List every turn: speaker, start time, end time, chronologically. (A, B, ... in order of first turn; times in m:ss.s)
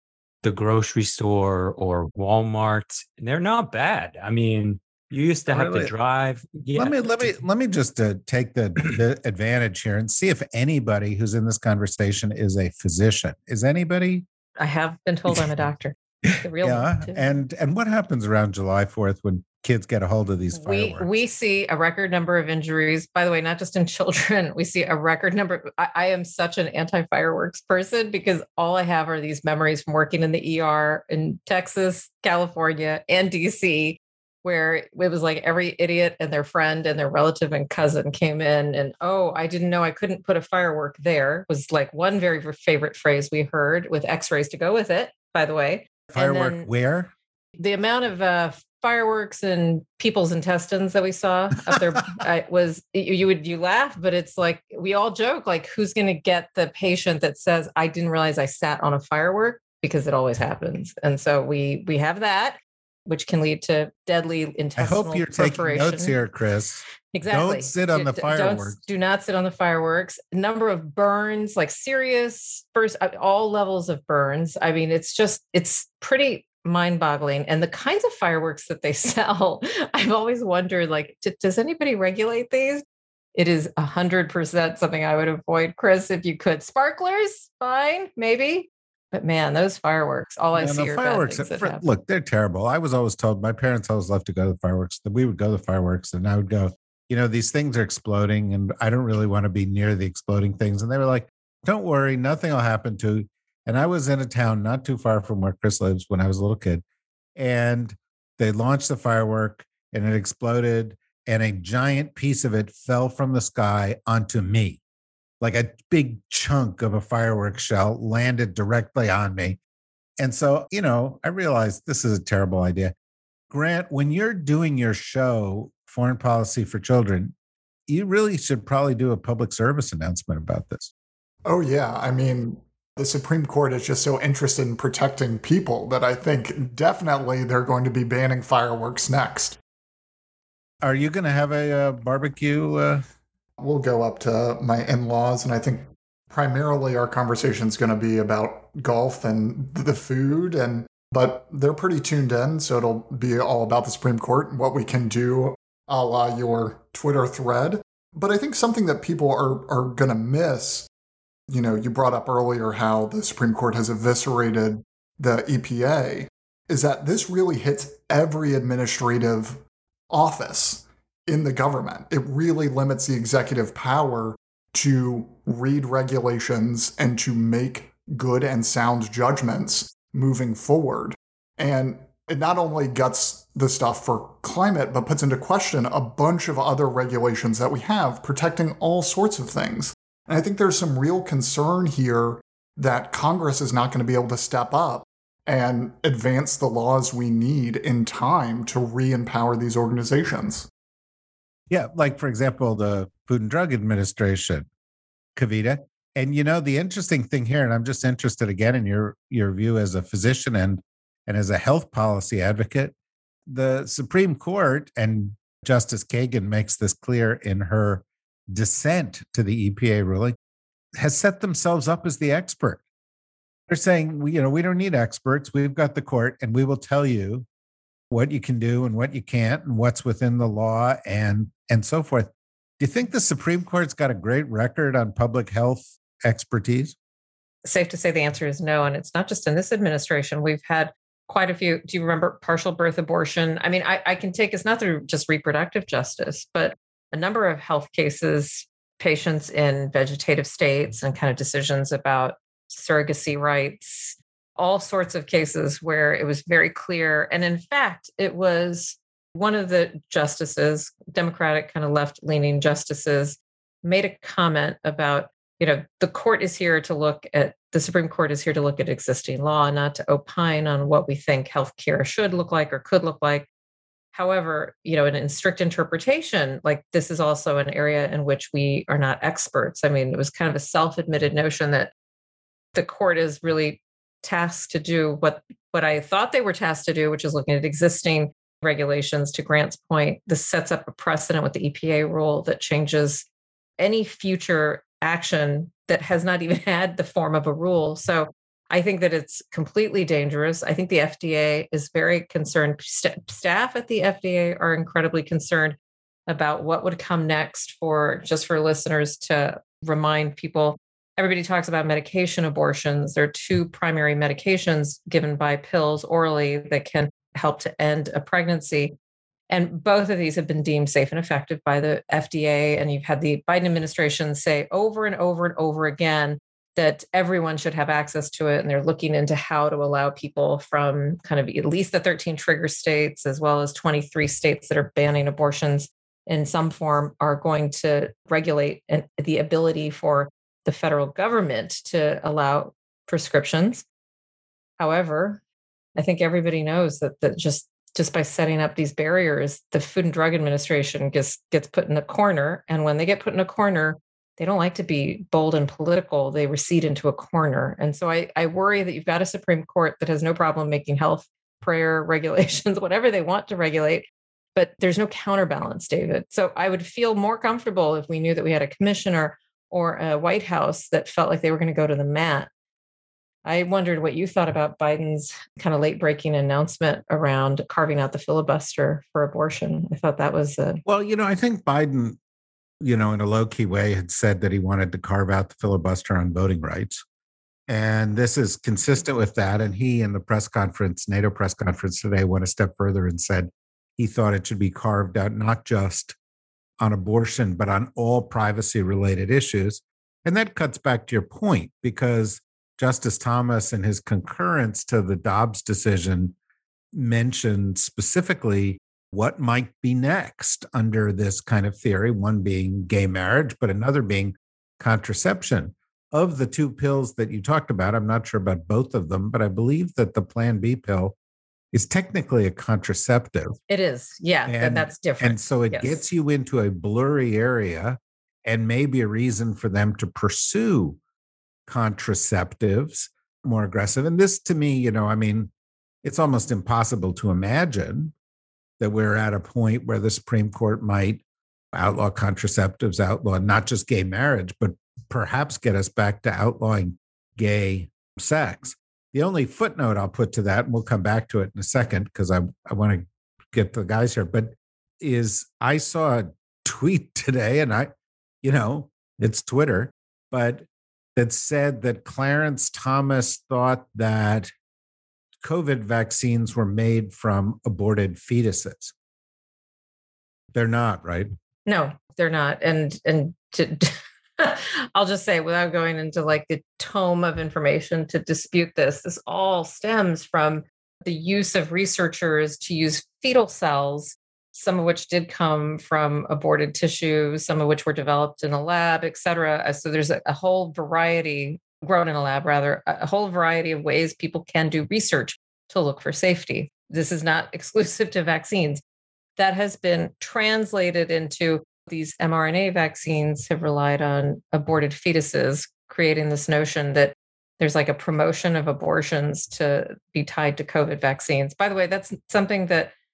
0:00.4-0:07.4 A
0:05.5-0:05.9 B
0:06.8-0:14.3 B
0:14.6-0:17.3 C
0:16.3-0:21.1 B
0:20.5-0:46.7 C
0:46.1-0:47.1 B
0:47.6-1:06.1 C
1:04.8-1:08.8 B
1:07.1-1:22.8 C
1:23.4-1:31.8 C
1:30.5-1:46.8 B
1:47.4-1:54.8 B
1:55.4-1:59.6 B
2:00.2-2:02.9 B
2:03.5-2:07.3 B
2:07.9-2:10.9 B
2:11.4-2:19.6 D
2:20.8-2:23.0 B
2:23.6-2:40.9 D
2:41.5-3:20.7 D
3:21.7-3:24.7 B
3:25.4-3:32.9 B
3:33.5-3:40.4 B
3:41.0-3:42.8 B
3:43.7-3:47.5 B
3:48.1-3:57.0 B
3:57.6-4:33.5 C
4:34.1-4:41.9 C
4:42.8-4:53.2 C
4:53.8-5:05.8 C
5:06.3-5:19.0 C
5:19.5-5:43.8 C
5:44.8-5:45.4 C
5:46.0-6:12.5 C
6:13.4-6:20.8 C
6:20.9-6:22.2 B
6:22.8-6:27.0 B
6:27.7-6:36.2 B
6:36.8-6:46.4 B
6:46.9-7:01.2 B
7:01.7-7:03.6 B
7:03.7-7:06.0 C
7:04.5-7:11.0 B
7:11.7-7:15.5 B
7:16.0-7:18.1 B
7:18.8-7:21.2 B
7:21.7-7:37.9 B
7:38.4-7:44.5 B
7:45.4-7:48.9 B
7:50.5-7:51.3 B
7:51.7-8:18.8 C
8:19.4-8:32.9 C